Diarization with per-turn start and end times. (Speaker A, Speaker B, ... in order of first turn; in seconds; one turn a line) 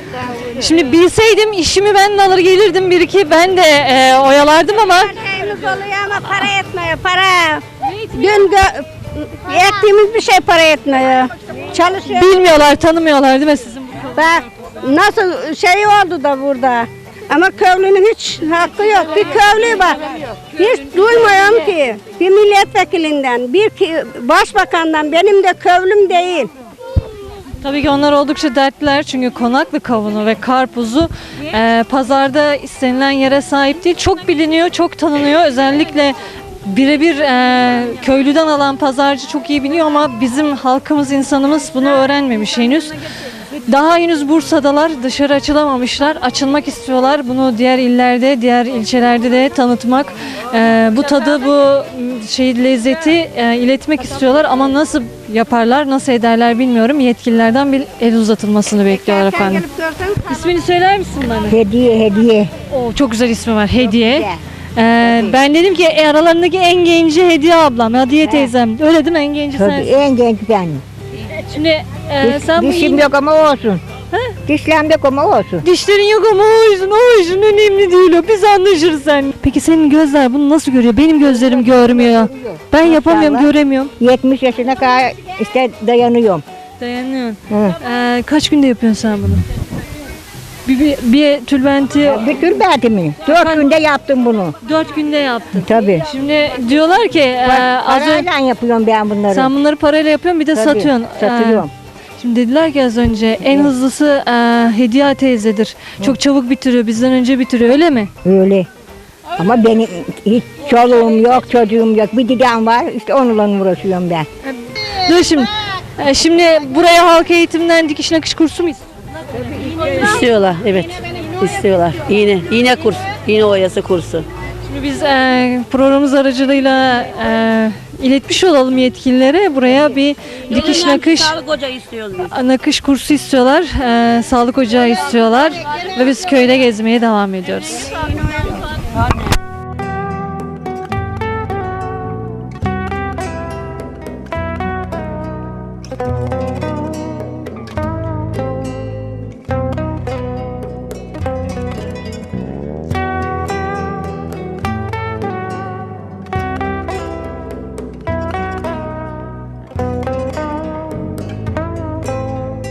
Speaker A: 0.4-5.1
Speaker B: 5.0-12.3
Speaker A: 12.1-14.1
Speaker B: 14.2-26.5
Speaker A: 27.6-43.0
Speaker A: 43.7-59.6
Speaker B: 58.9-60.3
Speaker A: 60.3-61.6
Speaker C: 61.5-62.5
Speaker A: 62.7-69.9
Speaker C: 68.2-68.5
Speaker C: 69.6-70.8
Speaker A: 71.5-73.1
Speaker C: 72.2-73.8
Speaker A: 74.1-74.4
Speaker C: 74.5-75.6
Speaker A: 75.6-83.9
Speaker C: 81.3-83.5
Speaker C: 84.0-86.4
Speaker A: 86.8-89.4
Speaker C: 87.5-87.8
Speaker A: 90.7-92.4
Speaker C: 92.0-94.5
Speaker A: 93.2-93.7
Speaker A: 94.6-98.3
Speaker C: 95.6-96.1
Speaker C: 97.5-99.5
Speaker A: 99.3-101.7
Speaker C: 100.5-101.7
Speaker A: 102.2-108.1
Speaker C: 108.2-108.7
Speaker C: 109.4-114.3
Speaker A: 114.5-118.8
Speaker D: 119.7-124.3
Speaker A: 124.7-131.4
Speaker D: 130.6-132.2
Speaker A: 132.2-137.9